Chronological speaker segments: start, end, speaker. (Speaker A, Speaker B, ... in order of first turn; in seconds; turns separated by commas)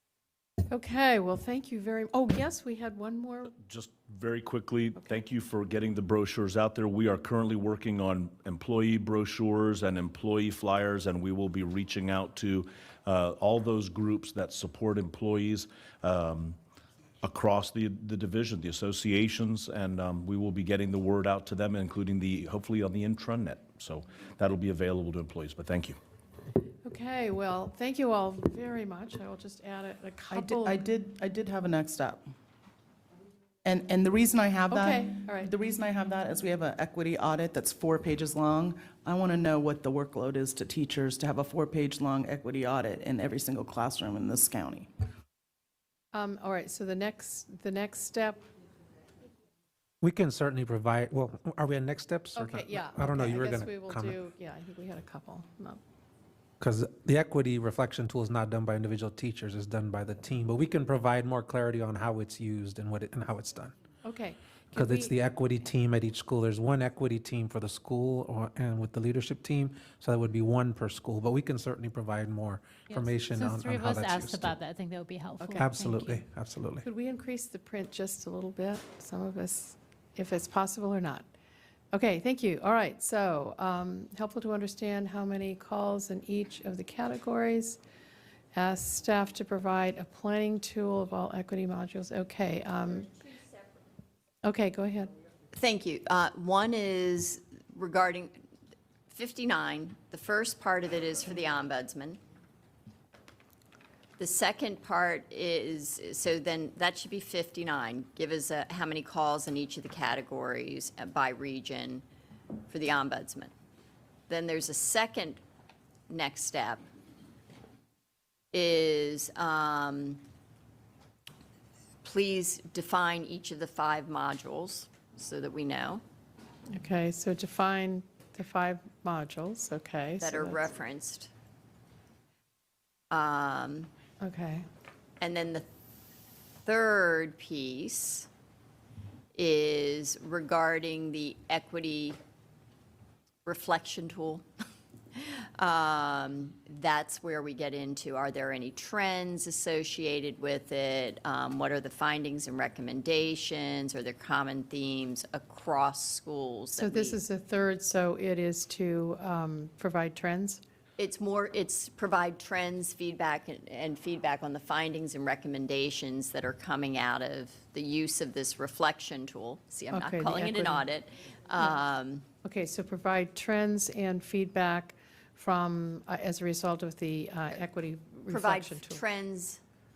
Speaker A: 0.7-3.5, Speaker B: 3.6-16.6, Speaker B: 17.2-26.0, Speaker A: 26.9-30.9, Speaker C: 30.3-32.3, Speaker C: 33.6-44.9, Speaker A: 34.7-35.5, Speaker A: 46.1-48.5, Speaker D: 50.0-54.2, Speaker A: 52.4-55.8, Speaker D: 56.6-63.8, Speaker A: 64.0-65.2, Speaker D: 64.7-74.6, Speaker E: 73.3-76.2, Speaker A: 75.4-75.7, Speaker D: 75.6-76.8, Speaker A: 76.8-81.3, Speaker A: 81.9-87.8, Speaker A: 88.5-93.1, Speaker A: 94.4-95.1, Speaker F: 95.5-98.4, Speaker F: 99.1-102.2, Speaker F: 104.2-112.0, Speaker F: 112.7-113.5, Speaker F: 114.3-115.4, Speaker F: 116.1-116.8, Speaker F: 118.5-120.2, Speaker F: 122.0-126.0, Speaker A: 126.7-130.7, Speaker F: 130.2-131.3, Speaker F: 133.1-133.9, Speaker A: 134.2-134.7, Speaker F: 135.2-135.7, Speaker F: 136.7-138.3, Speaker F: 139.3-142.2, Speaker F: 143.4-144.4, Speaker F: 145.1-157.2, Speaker A: 156.8-160.6, Speaker F: 161.0-172.2, Speaker A: 169.9-170.8, Speaker A: 172.4-179.0, Speaker F: 178.3-179.6